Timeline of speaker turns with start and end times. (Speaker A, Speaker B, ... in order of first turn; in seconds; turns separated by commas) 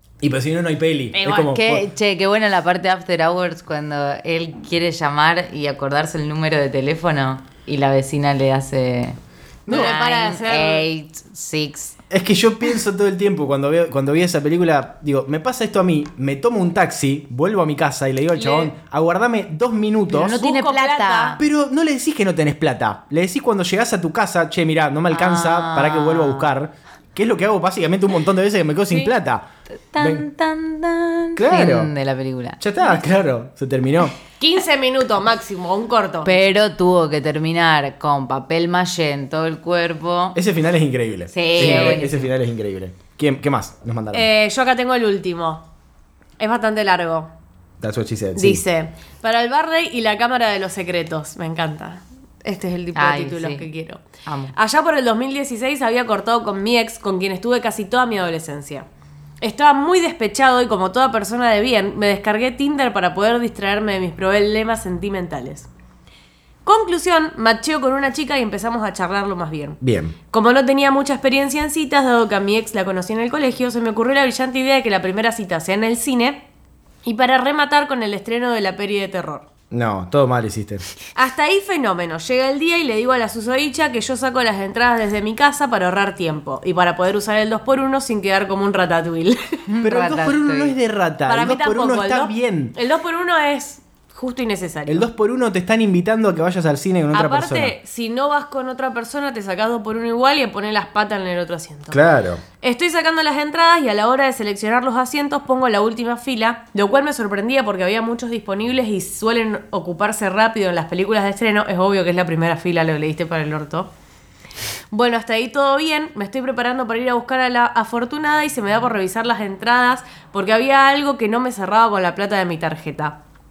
Speaker A: 0.2-1.9, Speaker B: 1.1-1.6, Speaker C: 1.5-12.0, Speaker A: 9.7-9.9, Speaker B: 9.7-10.9, Speaker A: 12.1-20.4, Speaker B: 18.4-18.7, Speaker C: 20.1-21.4, Speaker B: 20.3-21.4, Speaker A: 21.4-29.5, Speaker C: 25.1-26.5, Speaker C: 29.9-32.6, Speaker A: 30.0-30.2, Speaker A: 31.4-31.9, Speaker A: 32.6-34.1, Speaker B: 34.4-36.3, Speaker C: 36.2-40.4, Speaker A: 40.4-44.3, Speaker C: 41.3-42.3, Speaker B: 44.1-45.6, Speaker B: 46.4-47.3, Speaker A: 47.8-48.6, Speaker B: 48.4-54.0, Speaker C: 53.0-53.7, Speaker C: 54.2-54.5, Speaker B: 54.5-58.9, Speaker B: 59.4-65.7, Speaker B: 66.7-69.8, Speaker A: 69.8-70.2, Speaker B: 70.3-76.4, Speaker B: 77.0-79.5, Speaker A: 79.7-80.9, Speaker B: 81.1-89.6, Speaker C: 89.7-90.8, Speaker A: 89.8-92.8, Speaker B: 91.3-95.0, Speaker A: 94.9-97.8, Speaker B: 97.1-102.1, Speaker A: 101.9-102.4, Speaker B: 102.6-113.9, Speaker B: 114.9-123.2